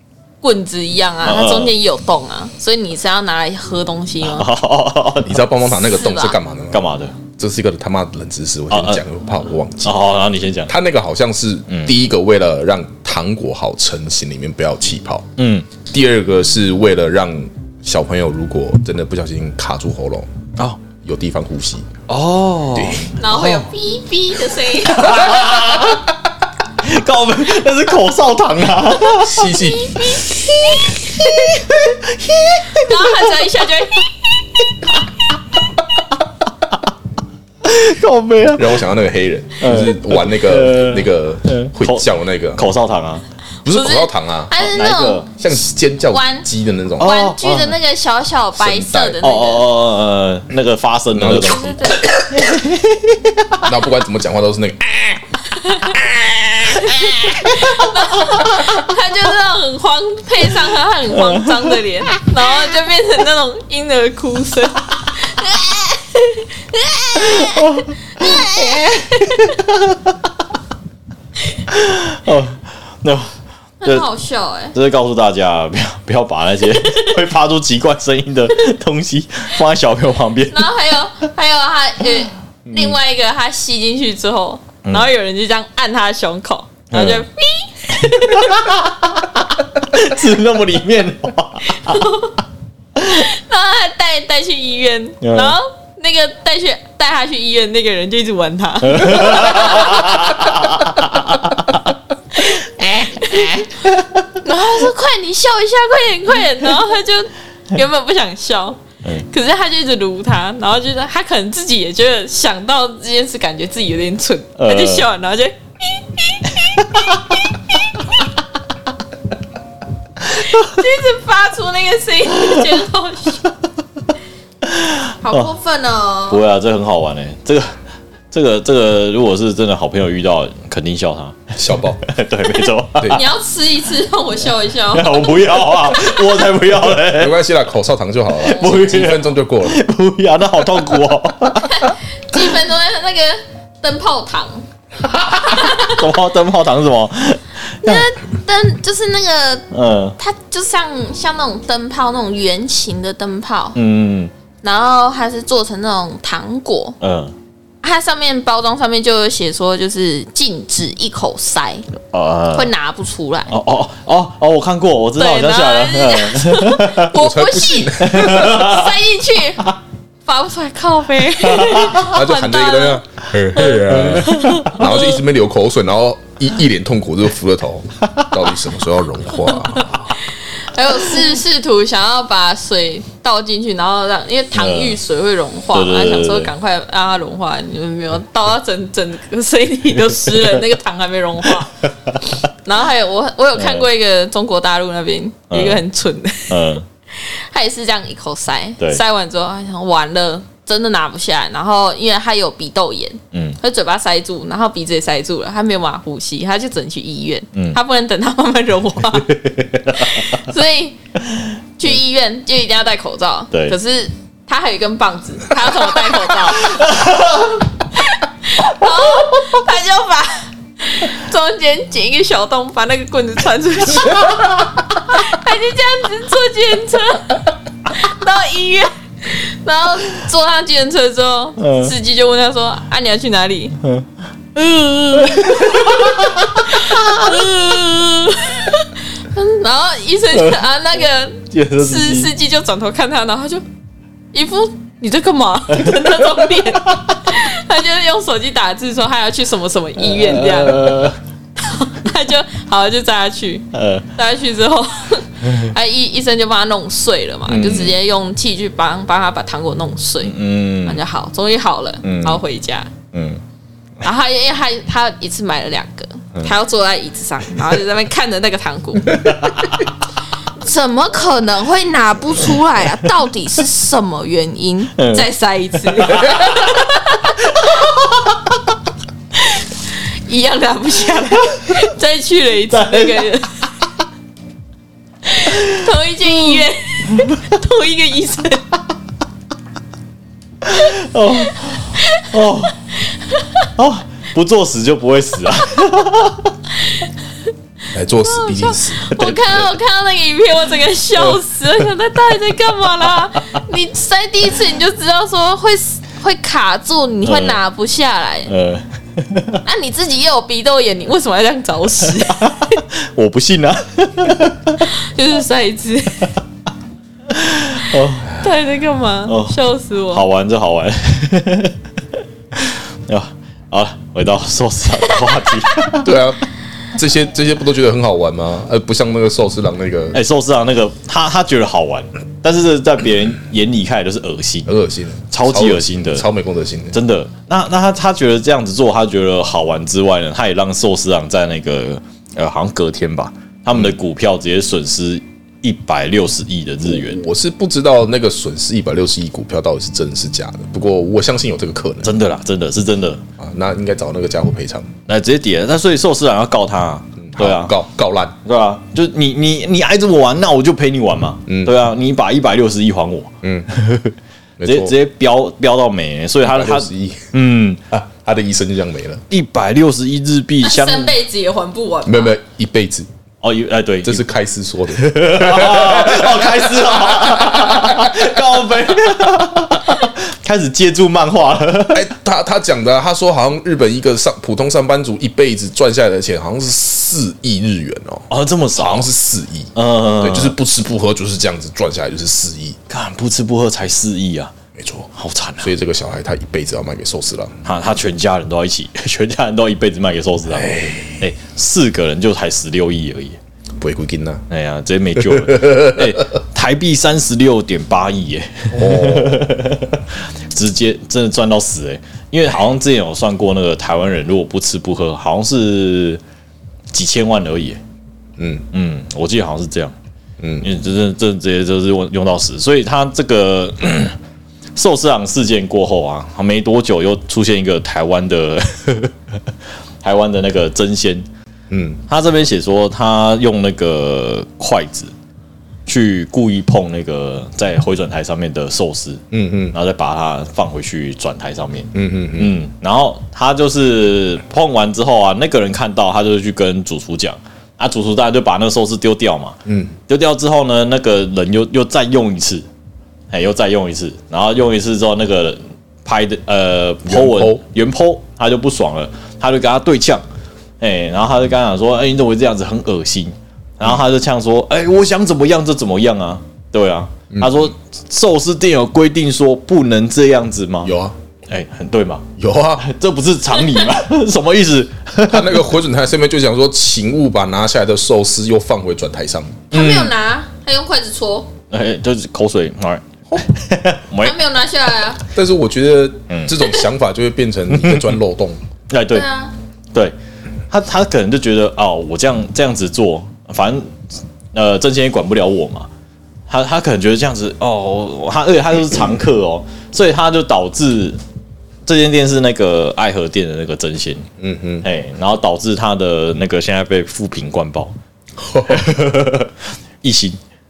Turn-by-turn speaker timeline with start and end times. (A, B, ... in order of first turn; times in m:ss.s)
0:00.4-0:04.5 A
0:01.2-0:01.7 B
0:04.2-0:05.5 B
0:05.2-0:10.0 C
0:05.8-0:06.4 A
0:06.7-0:07.2 B
0:08.7-0:09.0 B
0:09.8-0:10.7 B
0:10.6-0:15.3 C
0:15.4-0:15.7 B
0:15.8-0:20.3 C
0:20.9-0:21.9 C
0:22.1-0:23.7 B
0:22.7-0:23.1 C
0:23.2-0:25.7 A
0:24.9-0:26.1 B
0:26.8-0:29.5 B
0:29.1-0:30.2 C
0:29.2-0:31.5 A
0:30.0-0:33.7 B
0:32.7-0:34.6 A
0:34.6-0:35.1 B
0:37.6-0:38.8 B
0:38.5-0:42.6 C
0:39.6-0:43.2 B
0:43.6-0:44.5 C
0:43.6-0:45.4 A
0:44.5-0:45.3 B
0:45.4-0:47.2 C
0:46.1-0:49.7 A
0:47.0-0:47.8 B
0:48.6-0:49.2 C
0:49.2-0:53.7 B
0:51.1-0:52.0 C
0:51.4-0:52.2 A
0:53.6-0:55.3 C
0:55.6-0:56.0 A
0:55.8-0:56.8 C
0:56.7-1:09.6 A
0:57.0-0:58.6 B
1:01.1-1:02.2 B
1:07.2-1:10.4 B
1:11.7-1:13.3 B
1:13.8-1:14.7 A
1:14.7-1:20.7 B
1:16.8-1:17.1 A
1:20.5-1:28.8 A
1:22.7-1:23.0 B
1:26.9-1:27.2 B
1:27.9-1:32.1 B
1:31.7-1:32.4 A
1:33.0-1:40.8 A
1:35.2-1:35.6 B
1:38.8-1:41.9 B
1:42.3-1:43.8 A
1:42.8-1:44.3 B
1:44.4-1:58.3 A
1:54.6-1:55.1 B
1:56.5-1:57.4 B
2:00.2-2:03.5 A
2:04.6-2:05.5 B
2:05.2-2:06.4 A
2:06.3-2:07.8 B
2:08.3-2:13.2 B
2:11.6-2:12.0 C
2:13.0-2:13.2 C
2:13.1-2:16.4 A
2:14.9-2:17.4 B
2:17.1-2:19.8 C
2:18.4-2:21.9 B
2:18.5-2:18.9 A
2:21.7-2:24.6 A
2:25.2-2:26.0 A
2:25.4-2:28.1 B
2:27.8-2:33.8 A
2:29.7-2:30.2 B
2:33.7-2:34.3 B
2:34.6-2:37.0 A
2:37.0-2:37.3 B
2:37.8-2:41.9 A
2:42.1-2:42.7 B
2:42.5-2:43.5 A
2:43.5-2:47.1 B
2:45.2-2:49.7 A
2:47.1-2:48.6 C
2:48.0-2:48.9 B
2:50.2-2:53.0 A
2:51.4-2:52.1 B
2:51.9-3:00.2 C
2:53.5-2:54.8 B
2:53.6-2:55.2 A
2:58.0-2:58.3 B
3:00.7-3:31.0 A
3:04.5-3:05.0 B
3:05.7-3:06.5 B
3:11.8-3:12.5 B
3:13.5-3:13.8 B
3:15.5-3:15.8 B
3:16.5-3:16.9 B
3:23.3-3:23.6 B
3:27.5-3:27.8 B
3:29.2-3:30.4 B
3:31.8-3:37.0 A
3:33.5-3:33.8 B
3:36.6-3:37.6 B
3:37.9-3:53.8 A
3:51.6-3:51.9 B
3:53.8-3:54.1 B
3:54.5-4:03.6 A
3:55.2-3:57.3 B
4:00.3-4:00.6 B
4:01.5-4:02.3 B
4:04.3-4:22.9 A
4:05.7-4:07.2 B
4:10.0-4:11.2 B
4:13.7-4:14.1 B
4:17.5-4:18.0 B
4:20.2-4:21.0 B
4:22.0-4:22.4 B
4:23.1-4:23.4 B
4:24.0-4:29.4 A
4:29.1-4:29.8 B
4:30.6-4:37.9 A
4:35.0-4:35.3 B
4:35.9-4:36.8 B
4:37.4-4:38.6 B
4:39.4-4:43.7 A
4:42.7-4:43.3 B
4:45.2-4:48.8 A
4:47.1-4:47.4 B
4:50.6-4:52.8 B
4:51.4-4:52.4 A
4:53.1-4:53.7 A
4:53.8-4:56.6 B
4:57.9-4:59.2 C
4:58.2-5:08.5 A
4:59.1-4:59.6 B
5:07.2-5:07.6 B
5:08.5-5:09.6 B
5:09.6-5:12.8 A
5:12.1-5:14.9 B
5:14.8-5:16.4 A
5:17.3-5:18.4 B
5:18.3-5:20.2 A
5:19.2-5:19.6 B
5:20.1-5:21.8 B
5:22.5-5:26.2 B
5:26.0-5:26.4 C
5:26.9-5:30.2 C
5:30.1-5:34.7 B
5:34.6-5:37.0 C
5:35.3-5:36.2 B
5:36.9-5:47.2 B
5:46.8-5:52.2 C
5:52.0-5:53.2 B
5:53.4-5:54.9 C
5:55.1-5:57.8 B
5:57.2-5:58.4 C
5:58.4-6:07.8 B
6:01.5-6:01.8 C
6:03.4-6:03.7 C
6:04.6-6:04.9 C
6:06.4-6:07.3 C
6:07.9-6:09.2 C
6:09.3-6:11.1 B
6:10.6-6:12.4 A
6:12.0-6:13.1 C
6:13.4-6:14.2 B
6:14.0-6:18.3 C
6:14.9-6:22.1 B
6:21.9-6:32.8 C
6:28.3-6:29.1 B
6:29.7-6:30.6 B
6:32.9-6:34.5 B
6:34.7-6:37.6 C
6:35.1-6:35.7 B
6:37.6-6:43.4 B
6:40.5-6:41.2 C
6:43.8-6:44.4 C
6:44.5-6:56.2 B
6:45.2-6:46.2 C
6:48.7-6:49.6 C
6:56.9-6:57.8 B
6:58.4-6:58.6 C
6:58.7-6:59.9 B
7:00.4-7:00.7 C
7:00.6-7:04.2 B
7:04.8-7:11.3 B
7:11.7-7:12.0 C
7:12.1-7:15.1 B
7:15.8-7:32.6 B
7:19.3-7:19.7 C
7:21.9-7:22.6 C
7:29.6-7:29.9 C
7:33.3-7:40.2 B
7:37.0-7:37.6 C
7:40.8-7:50.9 B
7:47.3-7:47.7 C
7:50.8-7:51.1 C
7:51.5-7:52.3 B
7:52.4-7:52.9 C
7:52.8-7:55.7 B
7:55.3-7:59.8 C
7:59.7-8:01.5 A
7:59.7-8:00.0 B
8:01.7-8:04.4 B
8:04.2-8:05.2 A
8:05.3-8:08.6 C
8:06.3-8:06.6 B
8:07.7-8:08.1 B
8:08.9-8:09.2 B
8:09.1-8:09.5 A
8:10.7-8:15.9 B
8:16.5-8:21.2 B
8:21.8-8:24.3 B
8:24.4-8:24.9 C
8:24.8-8:27.9 B
8:28.4-8:28.9 C
8:28.6-8:30.4 B